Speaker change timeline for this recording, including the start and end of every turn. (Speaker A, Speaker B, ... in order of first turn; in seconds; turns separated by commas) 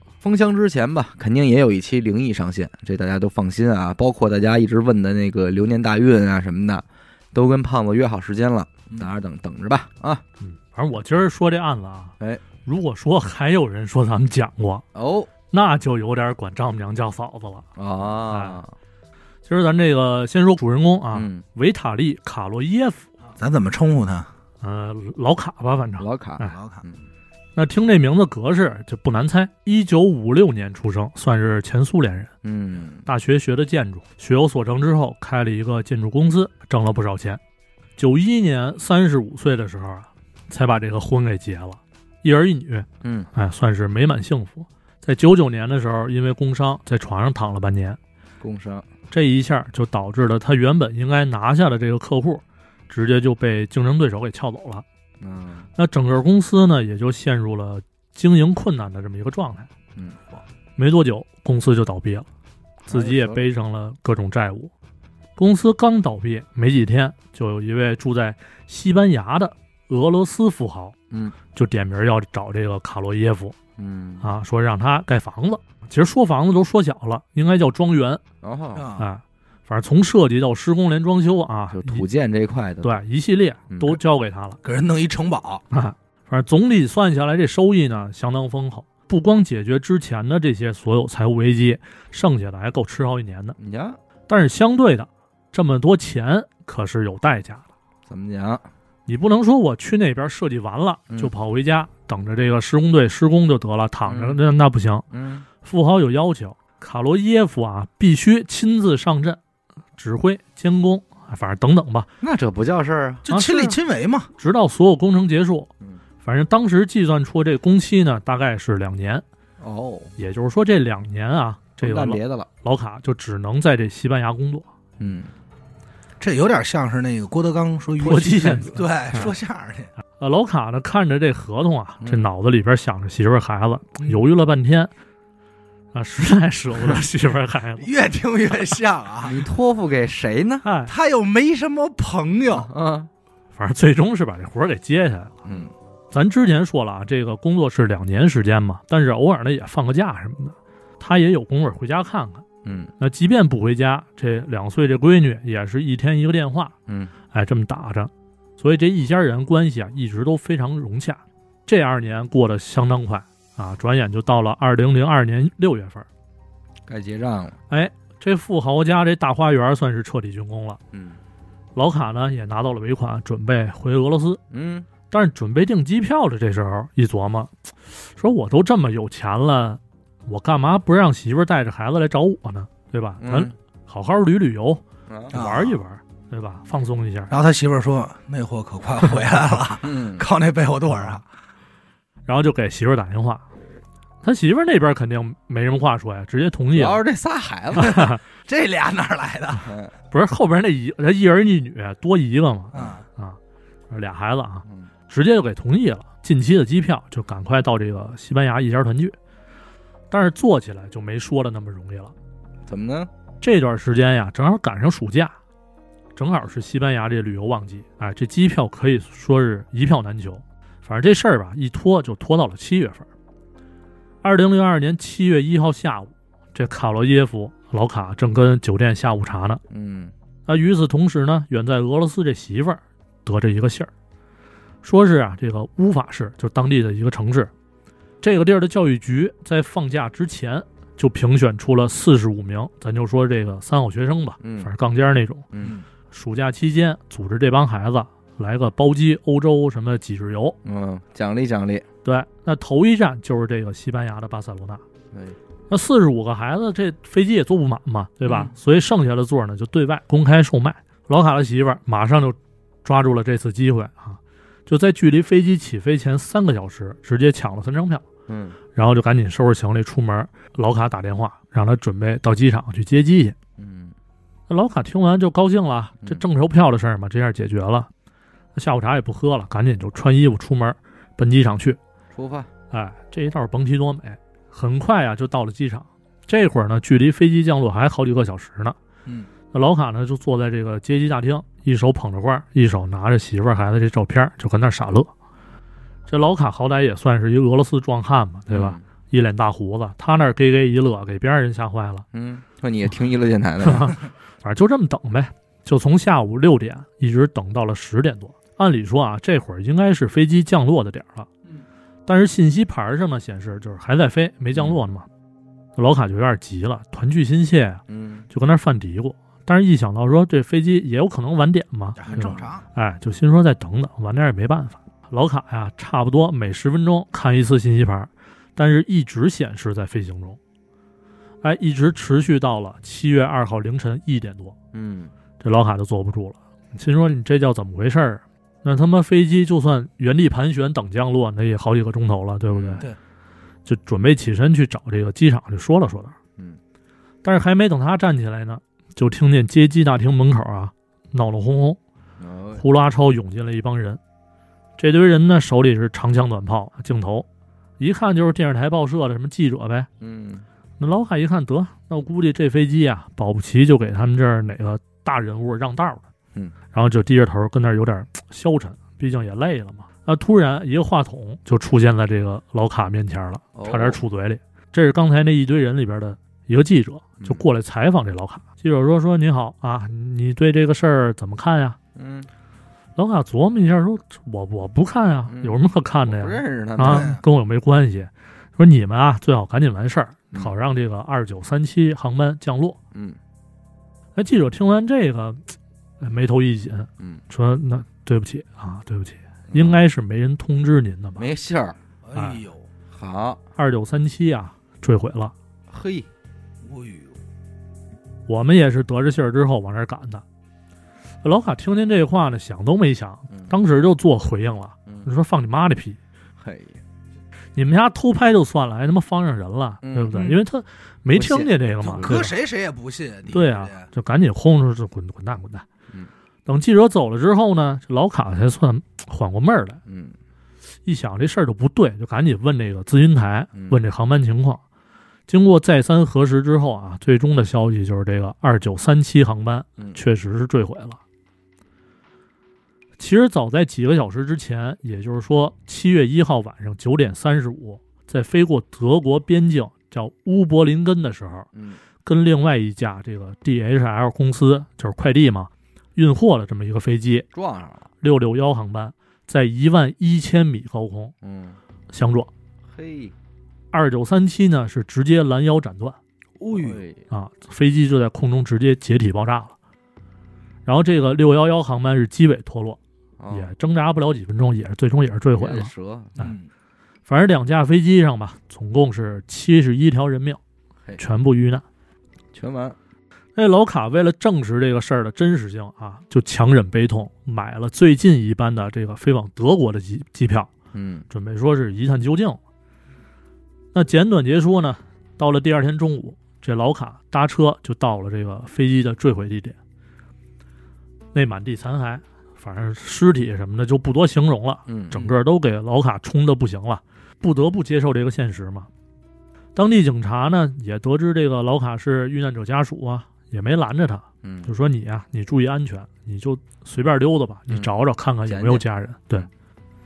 Speaker A: 0.2-10.2, Speaker B: 10.4-14.8, Speaker A: 14.9-15.3, Speaker B: 15.5-17.7, Speaker A: 17.8-18.7, Speaker B: 18.2-18.6, Speaker B: 19.4-23.1, Speaker A: 21.1-21.4, Speaker C: 23.4-24.3, Speaker B: 24.6-26.6, Speaker A: 26.0-27.0, Speaker C: 26.5-26.9, Speaker B: 27.6-32.3, Speaker A: 32.4-33.0, Speaker B: 33.0-37.4, Speaker B: 38.0-48.0, Speaker A: 43.0-43.3, Speaker A: 48.4-48.9, Speaker B: 49.1-54.8, Speaker A: 55.2-55.7, Speaker B: 55.8-59.7, Speaker B: 60.8-62.3, Speaker A: 62.8-63.4, Speaker B: 62.9-64.7, Speaker B: 65.4-71.0, Speaker A: 71.1-71.4, Speaker B: 71.5-73.5, Speaker A: 73.8-74.2, Speaker B: 74.2-78.2, Speaker A: 78.4-78.9, Speaker C: 78.7-79.1, Speaker B: 79.0-82.0, Speaker A: 81.7-83.0, Speaker B: 82.8-84.6, Speaker A: 83.7-84.0, Speaker C: 84.6-85.6, Speaker B: 85.7-93.5, Speaker A: 93.6-94.0, Speaker B: 94.3-97.7, Speaker A: 98.1-98.7, Speaker B: 99.1-105.0, Speaker A: 104.1-104.4, Speaker A: 105.1-105.5, Speaker B: 105.6-109.4, Speaker B: 110.0-112.1, Speaker A: 112.2-113.3, Speaker C: 113.2-114.3, Speaker B: 113.3-113.8, Speaker B: 114.4-115.7, Speaker B: 116.2-119.2, Speaker A: 119.6-120.1, Speaker B: 120.2-124.7, Speaker A: 121.8-122.5, Speaker A: 125.0-125.3, Speaker C: 126.2-129.9, Speaker B: 128.0-129.3, Speaker B: 130.2-134.9, Speaker A: 132.0-132.3, Speaker B: 135.9-137.9, Speaker C: 137.8-139.4, Speaker A: 139.2-140.7, Speaker B: 140.6-140.9, Speaker C: 140.9-142.7, Speaker A: 142.5-143.1, Speaker B: 143.5-145.4, Speaker A: 145.4-145.7, Speaker B: 146.1-152.4, Speaker A: 152.6-152.9, Speaker B: 153.0-156.8, Speaker A: 156.9-157.1, Speaker B: 157.3-166.1, Speaker A: 166.9-167.6, Speaker B: 167.7-170.8, Speaker A: 170.9-171.2, Speaker B: 171.7-174.4, Speaker A: 174.5-174.9, Speaker B: 175.1-177.5, Speaker B: 178.1-187.3, Speaker A: 183.2-183.5, Speaker A: 185.1-185.3, Speaker C: 185.3-185.8, Speaker C: 187.3-191.2, Speaker A: 189.8-190.2, Speaker B: 192.3-193.4, Speaker B: 194.2-197.0, Speaker A: 196.7-198.1, Speaker B: 197.7-198.2, Speaker C: 197.8-199.7, Speaker A: 199.6-199.9, Speaker B: 200.1-203.4, Speaker C: 202.7-203.0, Speaker B: 203.9-209.2, Speaker B: 210.1-212.1, Speaker A: 212.7-213.1, Speaker B: 213.4-215.3, Speaker B: 216.2-223.1, Speaker B: 224.2-229.6, Speaker A: 229.7-230.1, Speaker B: 230.5-233.9, Speaker B: 234.8-237.5, Speaker B: 238.2-245.5, Speaker A: 244.4-244.7, Speaker A: 245.5-245.8, Speaker B: 246.1-250.6, Speaker A: 250.6-251.9, Speaker B: 252.0-254.8, Speaker A: 255.1-255.4, Speaker B: 255.7-268.1, Speaker A: 268.3-268.6, Speaker B: 268.7-273.4, Speaker A: 273.6-273.9, Speaker B: 274.5-277.9, Speaker B: 278.5-281.8, Speaker A: 282.1-282.5, Speaker B: 282.7-288.8, Speaker B: 289.5-295.1, Speaker B: 296.1-302.1, Speaker A: 298.5-298.8, Speaker A: 302.1-304.0, Speaker B: 303.6-311.3, Speaker B: 312.1-315.1, Speaker B: 315.8-330.4, Speaker A: 317.9-318.3, Speaker C: 322.0-322.6, Speaker A: 322.1-322.4, Speaker B: 331.4-334.6, Speaker A: 334.7-335.1, Speaker B: 335.4-342.9, Speaker A: 342.5-342.9, Speaker B: 343.6-346.2, Speaker B: 347.2-351.8, Speaker A: 352.2-352.6, Speaker B: 352.5-354.0, Speaker B: 354.8-357.2, Speaker B: 357.8-359.9, Speaker A: 360.0-360.4, Speaker B: 360.8-366.1, Speaker B: 366.7-381.8, Speaker A: 373.5-374.0, Speaker A: 377.2-377.4, Speaker A: 381.9-382.3, Speaker B: 382.9-392.8, Speaker A: 385.3-387.2, Speaker C: 386.9-387.2, Speaker A: 392.9-393.2, Speaker B: 394.1-401.2, Speaker A: 399.5-399.8, Speaker A: 401.2-401.8, Speaker C: 402.0-402.6, Speaker B: 402.1-402.4, Speaker A: 402.9-403.4, Speaker B: 403.6-405.3, Speaker A: 405.7-406.1, Speaker C: 406.6-407.1, Speaker B: 408.3-410.2, Speaker B: 411.2-416.0, Speaker A: 416.4-416.8, Speaker B: 417.5-422.3, Speaker A: 419.8-420.3, Speaker C: 420.1-420.4, Speaker A: 421.1-422.3, Speaker C: 421.9-423.9, Speaker B: 423.3-425.7, Speaker B: 426.4-429.8, Speaker A: 429.9-430.1, Speaker B: 430.9-434.6, Speaker B: 435.3-441.0, Speaker B: 443.0-451.5, Speaker A: 451.5-451.8, Speaker B: 452.0-457.3, Speaker A: 457.3-457.9, Speaker B: 458.0-461.1, Speaker A: 461.2-461.6, Speaker B: 461.9-462.3, Speaker A: 462.6-463.1, Speaker B: 463.7-466.0, Speaker C: 466.4-466.8, Speaker A: 466.5-467.1, Speaker B: 467.1-469.5, Speaker B: 470.6-472.8, Speaker A: 473.2-473.5, Speaker B: 473.3-476.3, Speaker A: 475.3-476.2, Speaker C: 476.2-476.5, Speaker B: 477.1-480.4, Speaker B: 480.9-481.6, Speaker A: 482.3-482.8, Speaker B: 483.4-490.5, Speaker A: 490.7-491.1, Speaker B: 491.1-492.4, Speaker B: 493.7-499.6, Speaker B: 501.1-508.7, Speaker A: 504.7-505.1, Speaker B: 509.5-519.3, Speaker A: 514.2-514.5, Speaker A: 518.2-518.6